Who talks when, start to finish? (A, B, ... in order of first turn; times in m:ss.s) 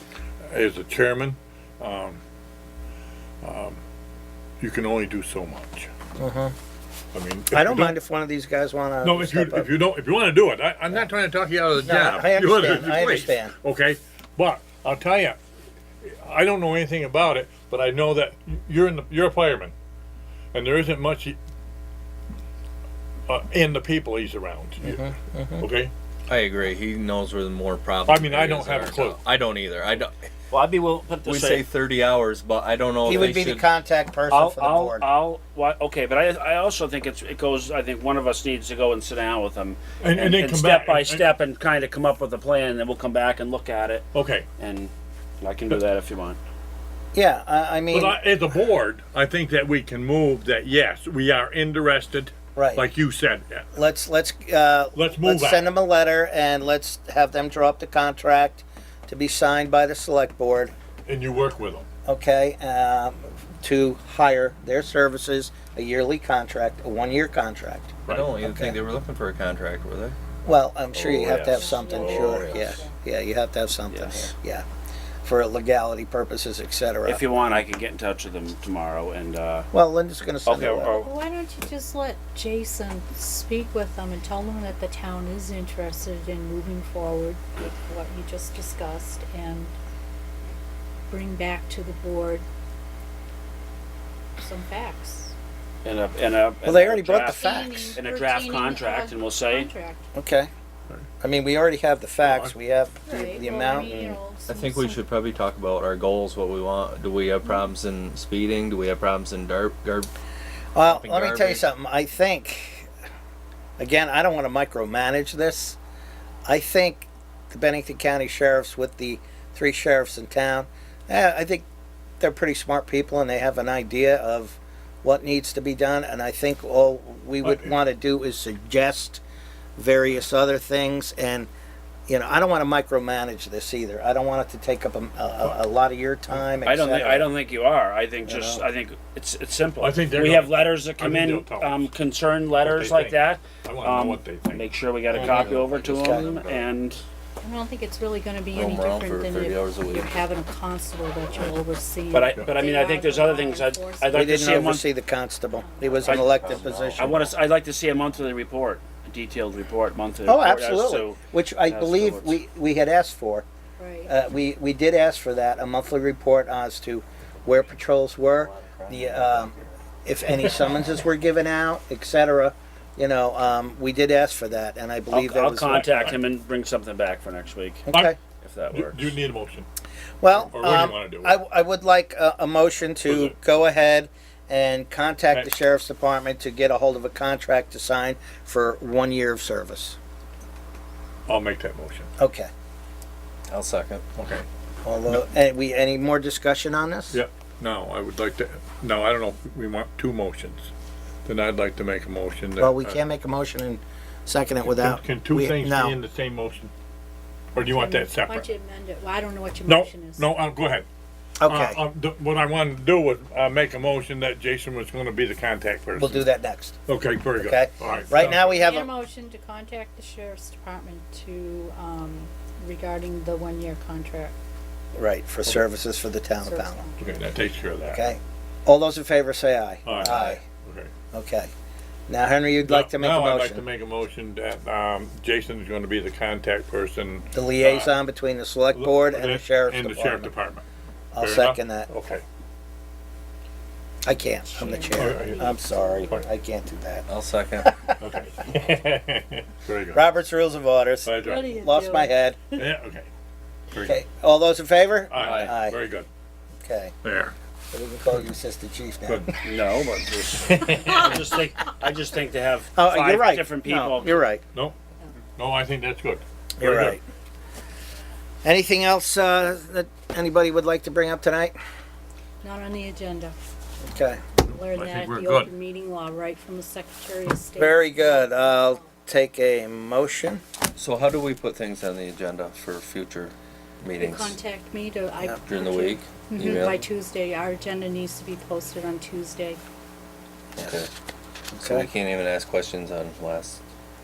0:00.4-0:02.2 A
0:03.4-0:03.8 A
0:04.6-0:05.9 A
0:06.2-0:06.5 B
0:07.1-0:07.9 A
0:07.5-0:09.7 B
0:09.0-0:15.4 A
0:11.8-0:13.5 B
0:16.0-0:19.7 A
0:20.5-0:21.4 A
0:23.3-0:25.9 A
0:24.8-0:25.6 B
0:26.3-0:30.2 C
0:28.0-0:29.2 A
0:30.5-0:31.6 D
0:31.2-0:33.6 C
0:33.0-0:35.0 B
0:34.3-0:46.4 D
0:40.0-0:41.3 A
0:44.1-0:44.5 A
0:47.1-0:48.2 B
0:47.9-0:53.7 A
0:52.6-0:52.8 B
0:53.7-1:00.7 B
0:54.9-0:55.7 A
1:01.0-1:01.9 A
1:02.0-1:08.8 B
1:08.1-1:10.2 C
1:10.4-1:14.6 B
1:10.9-1:12.4 D
1:11.5-1:12.9 E
1:11.9-1:12.6 C
1:13.9-1:14.3 D
1:15.2-1:17.2 B
1:17.0-1:19.7 D
1:19.7-1:21.0 B
1:20.4-1:21.1 D
1:21.0-1:29.7 E
1:31.1-1:32.4 E
1:34.4-1:35.3 E
1:35.8-1:37.4 D
1:36.6-1:38.0 B
1:37.2-1:40.0 E
1:37.9-1:39.7 D
1:40.1-1:40.5 B
1:41.2-1:44.0 B
1:42.2-1:42.5 A
1:43.0-1:45.0 E
1:43.8-1:44.1 D
1:44.5-1:50.1 C
1:50.7-1:52.9 B
1:50.8-1:51.6 C
1:53.8-1:55.8 B
1:56.5-2:01.6 B
2:02.2-2:09.2 B
2:07.4-2:07.7 A
2:09.8-2:11.5 B
2:12.1-2:17.3 B
2:16.6-2:27.0 D
2:18.2-2:18.6 B
2:19.8-2:21.9 A
2:22.6-2:24.7 A
2:25.1-2:26.7 C
2:25.9-2:26.2 B
2:27.4-2:34.2 E
2:28.5-2:30.2 C
2:31.2-2:31.5 C
2:32.1-2:34.9 D
2:34.1-2:37.1 B
2:35.5-2:36.6 E
2:35.8-2:37.4 C
2:37.0-2:42.4 D
2:40.2-2:43.4 B
2:43.8-2:44.1 E
2:44.0-2:49.5 B
2:48.4-2:49.5 C
2:50.0-2:55.9 B
2:55.1-2:57.9 D
2:55.7-2:56.2 A
2:57.9-2:58.2 B
2:58.4-2:59.1 D
2:58.7-2:59.7 A
3:00.2-3:10.0 B
3:00.4-3:01.4 A
3:03.0-3:03.4 A
3:11.3-3:12.1 A
3:12.2-3:12.5 B
3:13.5-3:14.0 C
3:14.1-3:14.4 A
3:14.8-3:17.2 B
3:17.1-3:20.7 A
3:21.2-3:23.0 A
3:22.6-3:25.9 B
3:24.6-3:26.7 A
3:27.5-3:28.5 A
3:27.6-3:30.3 E
3:29.7-3:30.9 A
3:31.4-3:31.8 B
3:31.5-3:36.3 A
3:36.0-3:36.8 B
3:36.9-3:38.8 A
3:37.4-3:38.9 B
3:38.4-3:44.4 E
3:44.9-3:46.8 B
3:46.4-3:47.1 E
3:47.0-3:48.0 A
3:47.9-3:50.4 B
3:49.8-3:50.9 A
3:51.1-3:51.5 B
3:52.1-3:53.6 B
3:52.6-3:57.9 A
3:57.3-4:00.3 B
3:58.7-4:00.6 A
4:01.1-4:01.9 B
4:01.2-4:02.2 A
4:04.0-4:07.1 B
4:04.5-4:06.2 E
4:04.8-4:05.4 A
4:07.1-4:07.7 C
4:07.6-4:08.0 B
4:08.0-4:10.1 A
4:09.9-4:12.4 B
4:11.0-4:11.6 A
4:11.2-4:12.2 E
4:12.5-4:13.1 A
4:13.7-4:14.0 A
4:13.8-4:15.8 B
4:15.1-4:16.1 A
4:15.2-4:15.4 D
4:16.6-4:16.9 B
4:17.0-4:17.3 A
4:17.7-4:19.3 B
4:19.0-4:19.3 A
4:19.4-4:24.3 D
4:20.5-4:21.0 A
4:22.8-4:24.4 B
4:25.4-4:27.0 A
4:26.6-4:27.0 B
4:28.4-4:31.5 B
4:32.4-4:33.4 E
4:33.8-4:34.2 B
4:34.4-4:38.9 E
4:34.4-4:35.5 A
4:37.6-4:40.4 B
4:40.8-4:44.4 C
4:44.0-4:49.6 E
4:45.4-4:46.8 C
4:50.6-4:50.9 C
4:51.5-4:51.9 B
4:51.6-4:53.6 C